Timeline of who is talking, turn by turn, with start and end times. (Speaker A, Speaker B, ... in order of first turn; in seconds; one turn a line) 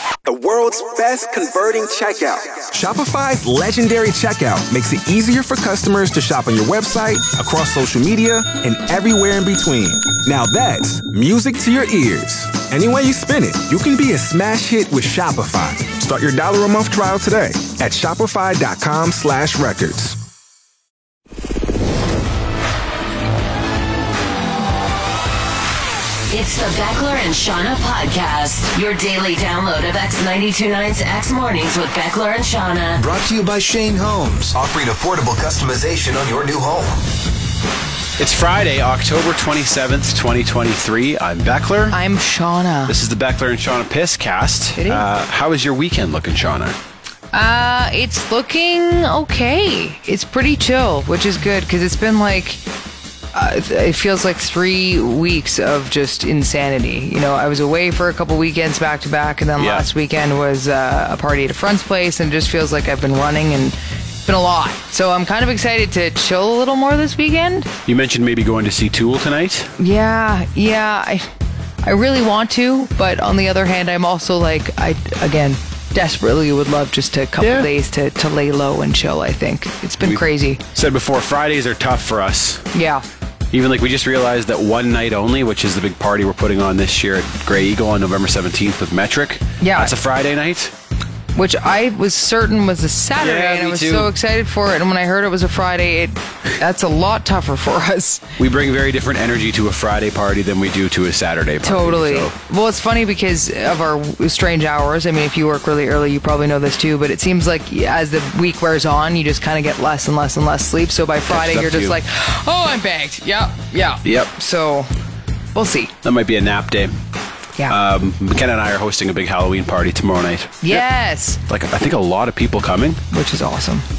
Speaker A: 0.2-20.2
Speaker B: 26.3-33.0
Speaker C: 33.0-37.0
Speaker D: 38.2-42.0
Speaker E: 41.9-42.9
Speaker D: 42.9-46.8
Speaker E: 44.8-45.0
Speaker E: 47.3-52.6
Speaker E: 53.3-67.7
Speaker D: 59.6-59.9
Speaker D: 67.8-69.7
Speaker E: 69.8-71.2
Speaker E: 71.8-80.6
Speaker D: 77.4-77.7
Speaker D: 80.0-82.7
Speaker E: 82.7-83.0
Speaker D: 83.5-90.7
Speaker E: 89.6-89.9
Speaker E: 91.3-98.2
Speaker D: 93.2-94.1
Speaker D: 98.4-102.3
Speaker E: 101.6-114.9
Speaker D: 111.3-112.0
Speaker D: 114.0-114.3
Speaker E: 115.5-115.9
Speaker D: 116.0-116.9
Speaker D: 117.7-120.8
Speaker E: 120.6-121.4
Speaker D: 121.5-123.0
Speaker E: 123.1-123.8